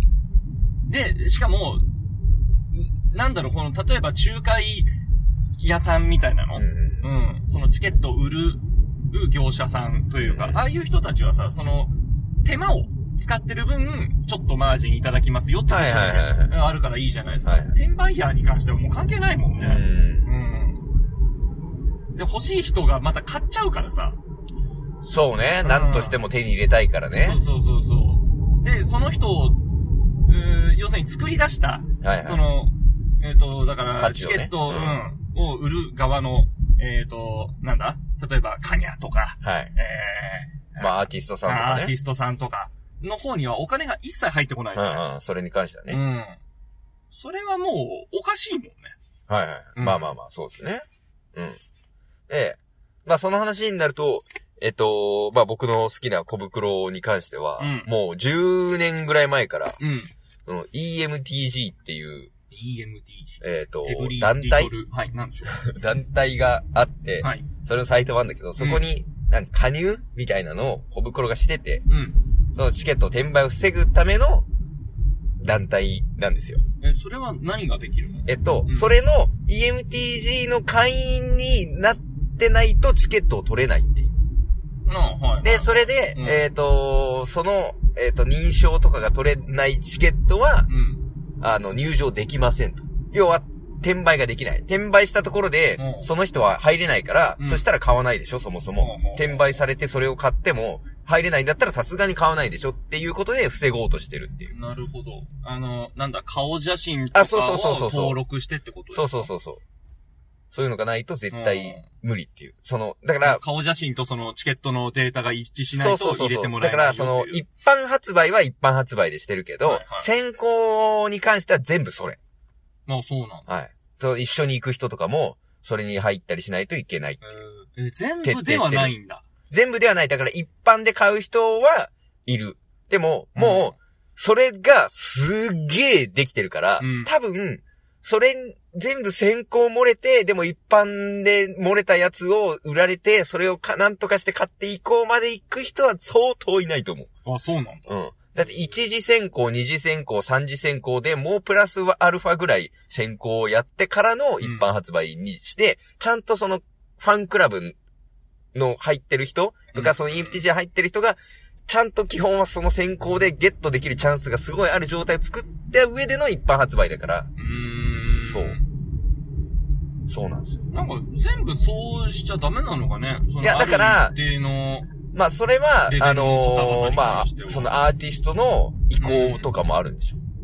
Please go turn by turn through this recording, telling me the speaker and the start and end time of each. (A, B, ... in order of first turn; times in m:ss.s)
0:00.8-0:01.8 A
0:02.7-0:04.9 A
0:05.6-0:11.9 A
0:06.5-0:07.0 B
0:10.2-0:10.6 B
0:12.4-0:20.8 A
0:15.7-0:16.5 B
0:17.4-0:17.7 B
0:19.6-0:20.3 B
0:22.1-0:24.2 A
0:25.0-0:27.4 B
0:25.6-0:26.2 A
0:27.2-0:29.6 A
0:30.3-0:45.0 A
0:32.0-0:32.4 B
0:34.0-0:35.0 B
0:39.4-0:39.7 B
0:40.8-0:41.9 B
0:44.7-0:46.0 B
0:45.9-0:46.4 A
0:47.1-0:48.9 A
0:49.3-0:50.8 B
0:49.8-0:50.1 A
0:52.3-0:59.8 B
0:57.6-0:57.9 A
0:59.8-1:00.1 A
1:00.4-1:02.3 B
1:02.5-1:05.6 A
1:03.4-1:04.7 B
1:05.5-1:11.8 B
1:07.2-1:07.5 A
1:08.6-1:08.8 A
1:11.9-1:12.2 A
1:12.5-1:14.5 B
1:15.4-1:16.6 B
1:16.8-1:18.9 A
1:18.2-1:24.1 B
1:24.8-1:26.4 A
1:25.4-1:30.7 B
1:30.7-1:31.0 A
1:31.4-1:44.5 B
1:35.8-1:36.1 A
1:37.4-1:37.6 A
1:38.8-1:39.4 A
1:44.5-1:49.3 A
1:47.1-1:48.2 B
1:48.9-1:49.6 B
1:50.5-1:53.4 B
1:51.3-1:51.8 A
1:53.2-1:57.4 A
1:55.7-2:02.2 B
1:59.6-2:00.1 A
2:02.9-2:03.5 A
2:03.5-2:07.2 B
2:07.2-2:09.2 A
2:08.2-2:08.9 B
2:09.5-2:27.1 B
2:13.3-2:13.8 A
2:16.8-2:17.1 A
2:27.2-2:28.7 A
2:27.9-2:37.8 B
2:34.4-2:34.7 A
2:38.5-2:47.3 B
2:39.7-2:40.4 A
2:47.4-2:48.6 A
2:48.2-2:48.6 B
2:50.1-2:50.6 B
2:50.7-2:54.9 A
2:53.4-2:54.2 B
2:55.1-3:00.2 B
2:55.9-2:57.7 A
2:59.0-2:59.5 A